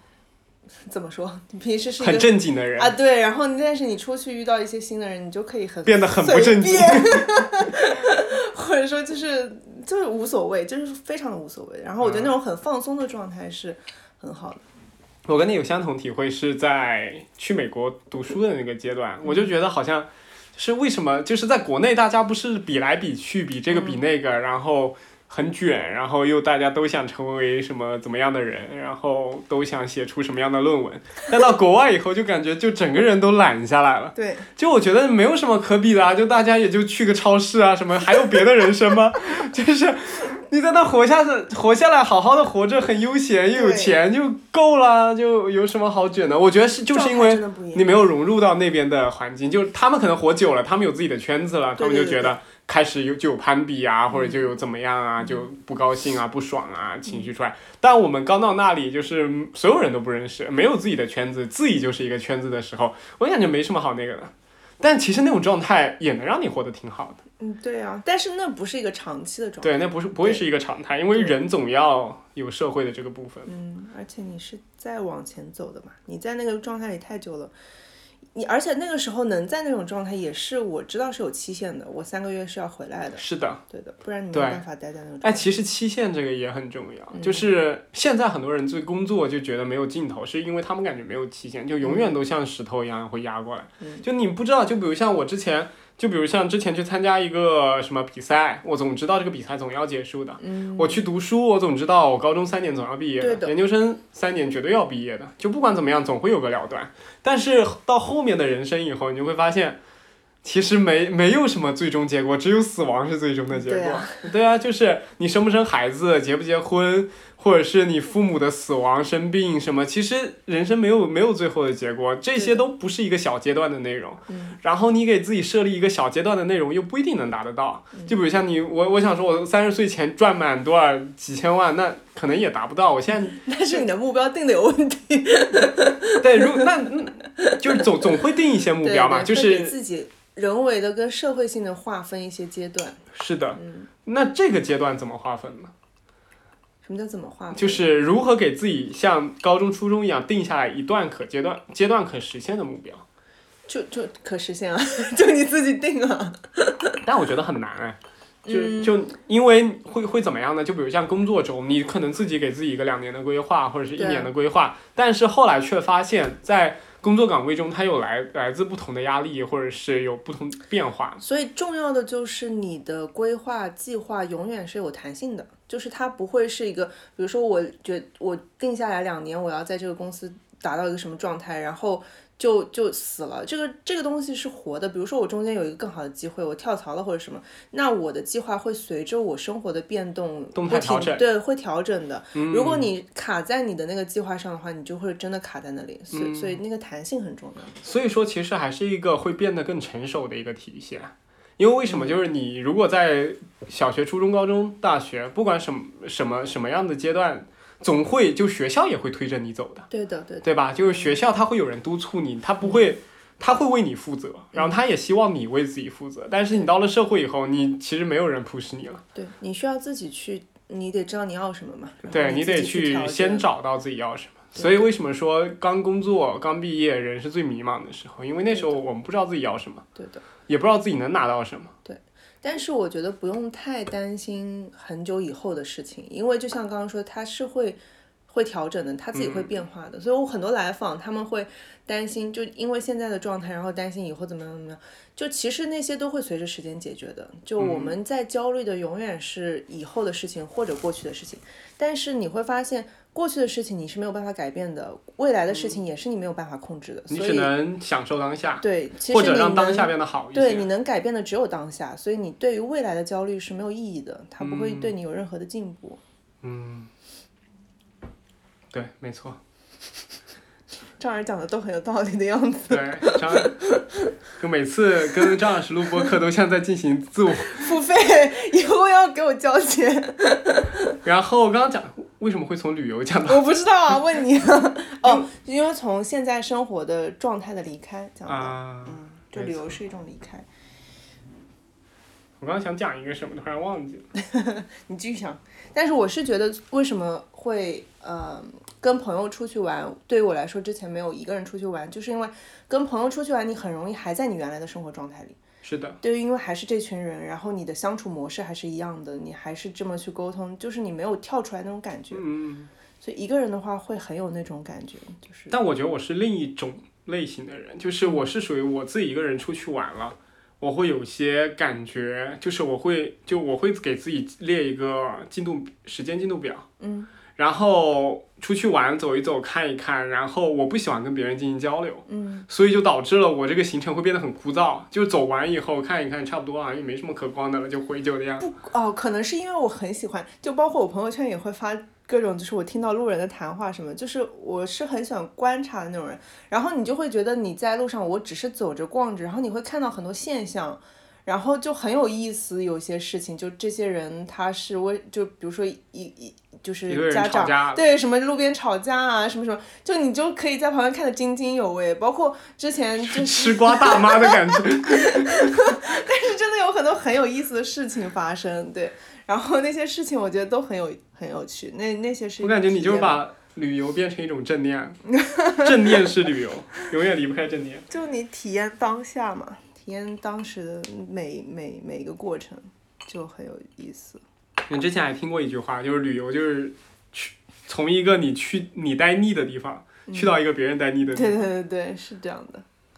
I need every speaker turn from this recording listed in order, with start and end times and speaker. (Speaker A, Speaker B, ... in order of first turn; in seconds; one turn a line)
Speaker A: 0.8-14.6
Speaker B: 2.0-2.9
Speaker B: 5.8-7.4
Speaker B: 12.0-12.3
Speaker B: 15.2-67.2
Speaker A: 19.2-19.5
Speaker A: 23.7-24.0
Speaker A: 34.1-34.5
Speaker A: 43.5-44.0
Speaker A: 46.9-48.0
Speaker A: 51.8-52.4
Speaker A: 54.1-54.5
Speaker A: 67.4-70.4
Speaker B: 69.6-73.5
Speaker A: 73.5-77.5
Speaker A: 78.3-85.5
Speaker B: 83.2-83.6
Speaker B: 84.3-84.6
Speaker B: 85.2-109.8
Speaker A: 87.1-87.5
Speaker A: 91.8-92.1
Speaker A: 93.8-94.0
Speaker A: 100.4-101.0
Speaker A: 103.2-103.5
Speaker B: 110.4-133.5
Speaker A: 113.5-114.1
Speaker A: 122.4-122.6
Speaker A: 124.3-124.6
Speaker A: 133.1-138.1
Speaker B: 136.2-139.8
Speaker A: 138.8-143.0
Speaker B: 143.1-145.7
Speaker A: 143.6-143.9
Speaker A: 146.8-147.9
Speaker B: 147.5-153.0
Speaker A: 153.7-157.0
Speaker B: 157.0-171.2
Speaker A: 158.4-158.9
Speaker A: 163.9-164.3
Speaker A: 171.2-197.7
Speaker B: 190.5-191.2
Speaker B: 192.3-192.9
Speaker B: 196.1-196.6
Speaker B: 197.8-209.9
Speaker A: 201.8-202.2
Speaker A: 209.9-211.2
Speaker B: 210.4-219.0
Speaker A: 219.1-223.5
Speaker B: 222.1-229.8
Speaker A: 228.5-228.8
Speaker A: 229.9-230.2
Speaker B: 230.4-231.7
Speaker A: 231.8-257.5
Speaker B: 239.1-239.5
Speaker B: 247.6-247.9
Speaker B: 257.1-260.7
Speaker A: 258.6-266.0
Speaker B: 264.4-264.9
Speaker B: 266.4-266.9
Speaker B: 268.7-269.4
Speaker A: 271.0-274.1
Speaker B: 272.7-273.6
Speaker B: 274.4-277.6
Speaker A: 277.5-281.0
Speaker B: 281.0-283.5
Speaker A: 283.2-290.4
Speaker B: 288.3-289.7
Speaker B: 292.4-294.1
Speaker A: 294.2-305.4
Speaker B: 305.6-306.0
Speaker A: 306.0-312.2
Speaker B: 312.1-312.7
Speaker A: 313.0-315.5
Speaker B: 315.5-326.6
Speaker A: 326.8-327.1
Speaker B: 327.4-338.5
Speaker A: 332.1-332.5
Speaker A: 338.4-373.2
Speaker B: 356.9-357.8
Speaker B: 363.0-365.6
Speaker B: 372.4-377.9
Speaker A: 375.2-375.9
Speaker A: 377.9-384.2
Speaker B: 384.7-391.4
Speaker A: 390.1-390.4
Speaker A: 391.1-392.6